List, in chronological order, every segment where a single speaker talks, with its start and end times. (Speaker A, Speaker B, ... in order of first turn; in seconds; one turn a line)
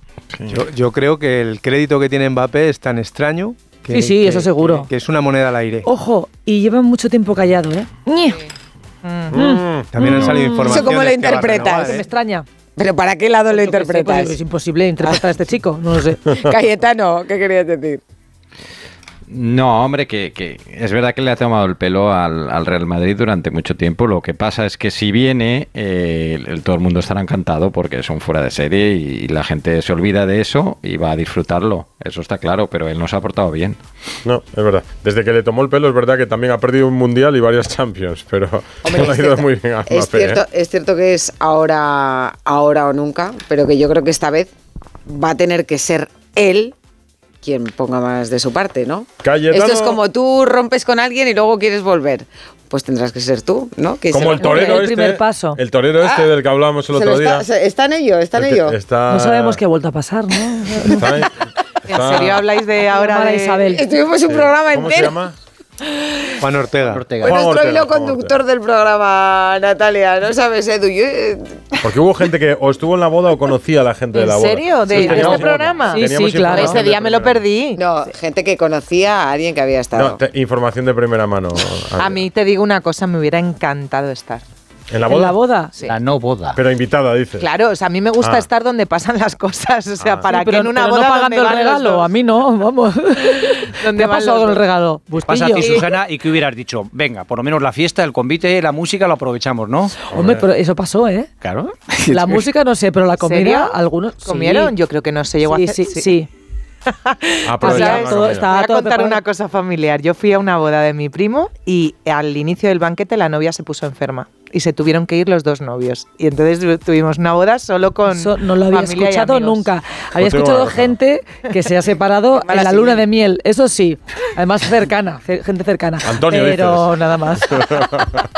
Speaker A: 0.3-0.6
Speaker B: 0.5-5.8
Speaker C: 3.9-4.9
Speaker C: 5.8-8.4
Speaker D: 9.0-9.5
Speaker A: 9.3-10.3
Speaker C: 9.3-12.4
Speaker B: 9.9-12.1
Speaker E: 10.6-12.0
Speaker E: 12.8-14.3
Speaker C: 13.5-16.2
Speaker E: 16.3-18.0
Speaker F: 19.3-33.8
Speaker A: 34.2-40.4
Speaker E: 38.8-44.5
Speaker E: 45.0-46.7
Speaker E: 47.4-54.8
Speaker A: 49.2-50.0
Speaker A: 54.1-57.4
Speaker C: 54.4-55.6
Speaker E: 56.0-56.3
Speaker E: 56.9-58.8
Speaker A: 58.3-59.6
Speaker C: 59.1-60.8
Speaker A: 60.8-61.3
Speaker A: 61.9-62.4
Speaker D: 61.9-63.8
Speaker C: 62.8-63.8
Speaker E: 63.7-65.1
Speaker A: 64.3-65.3
Speaker B: 66.4-67.0
Speaker G: 67.0-67.3
Speaker A: 67.2-68.3
Speaker E: 67.2-71.8
Speaker A: 71.8-77.5
Speaker D: 74.1-77.8
Speaker C: 74.9-76.8
Speaker E: 77.8-80.2
Speaker A: 79.9-82.3
Speaker D: 82.0-84.4
Speaker A: 84.9-85.3
Speaker C: 85.1-85.7
Speaker G: 85.8-86.6
Speaker A: 86.5-87.5
Speaker D: 87.4-92.1
Speaker A: 88.2-88.5
Speaker A: 90.0-90.2
Speaker C: 90.3-95.9
Speaker D: 93.6-94.6
Speaker G: 95.3-99.9
Speaker D: 95.5-95.9
Speaker C: 100.1-101.3
Speaker A: 100.1-100.4
Speaker G: 101.4-102.2
Speaker C: 102.1-104.7
Speaker D: 103.2-106.2
Speaker C: 105.5-106.3
Speaker D: 107.0-119.7
Speaker A: 107.5-108.5
Speaker C: 107.6-109.2
Speaker C: 118.1-127.7
Speaker A: 120.2-120.9
Speaker E: 122.4-123.0
Speaker A: 126.0-126.8
Speaker A: 127.5-128.1